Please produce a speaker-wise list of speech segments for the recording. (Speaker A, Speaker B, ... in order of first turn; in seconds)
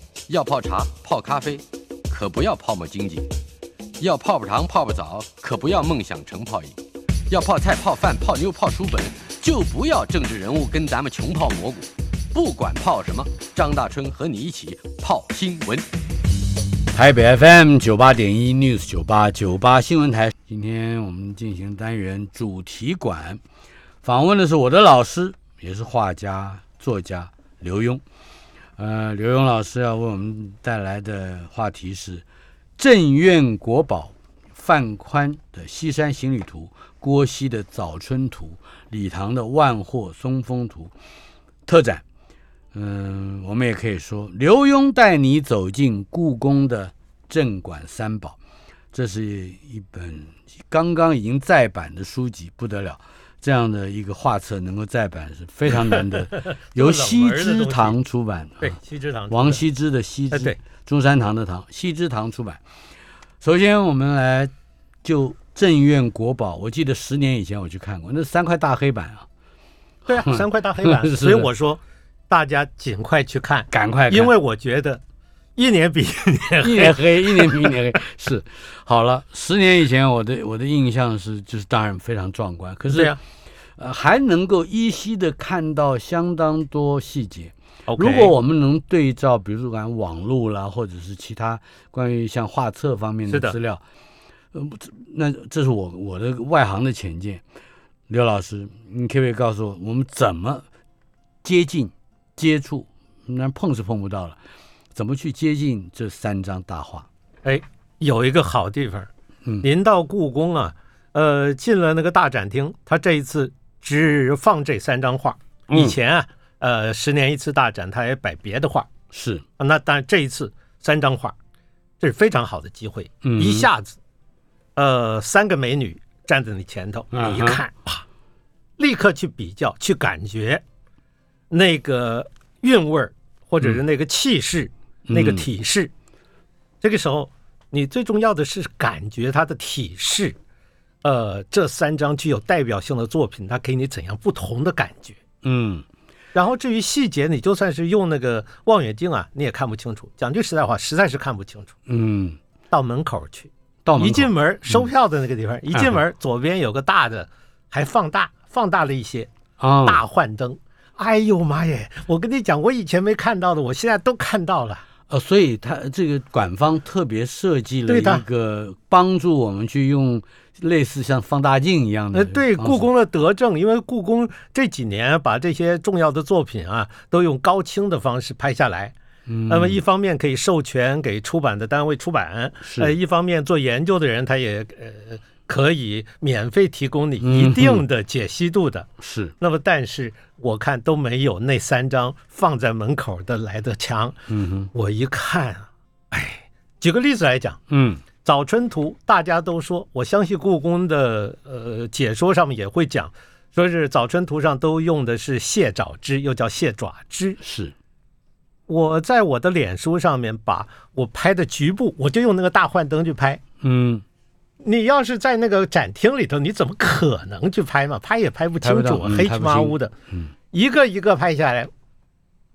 Speaker A: 0.3-3.2, 4.0-6.8, 7.3-15.8
Speaker B: 0.3-1.4, 2.1-3.2, 4.0-6.7, 7.3-11.7, 12.3-15.7, 16.9-23.4, 24.0-28.0, 28.8-32.2, 32.8-40.9, 41.7-42.0, 42.7-48.4, 48.9-58.8, 59.3-62.6, 63.4-64.5, 65.0-69.3, 70.1-71.5, 73.7-74.3, 76.6-83.1, 83.8-93.8, 94.5-97.4, 98.1-100.7, 101.4-104.4, 105.0-107.1, 115.7-116.0, 119.1-119.4, 123.2-123.7, 127.1-127.6, 135.1-135.5, 145.4-145.8, 151.9-152.4, 153.8-154.9, 159.6-160.0, 165.1-172.9, 179.3-179.8, 182.6-182.9, 187.2-187.8, 189.0-189.3, 194.3-194.7, 197.7-198.0, 207.4-207.7, 213.6-214.0, 218.6-220.3
Speaker C: 55.7-58.0, 58.6-59.6, 60.3-60.6, 70.1-75.0, 75.6-77.8, 82.9-83.2, 87.9-88.3, 93.3-93.6, 107.5-109.1, 109.6-118.9, 119.6-121.3, 122.0-124.0, 124.8-128.0, 128.8-130.6, 131.5-135.9, 136.8-140.3, 141.0-145.2, 146.3-151.7, 152.7-159.3, 159.8-164.8, 167.9-168.2, 172.1-178.9, 179.5-194.2, 194.7-197.6, 198.2-207.4, 208.7-213.4, 214.6-219.9, 220.5-221.7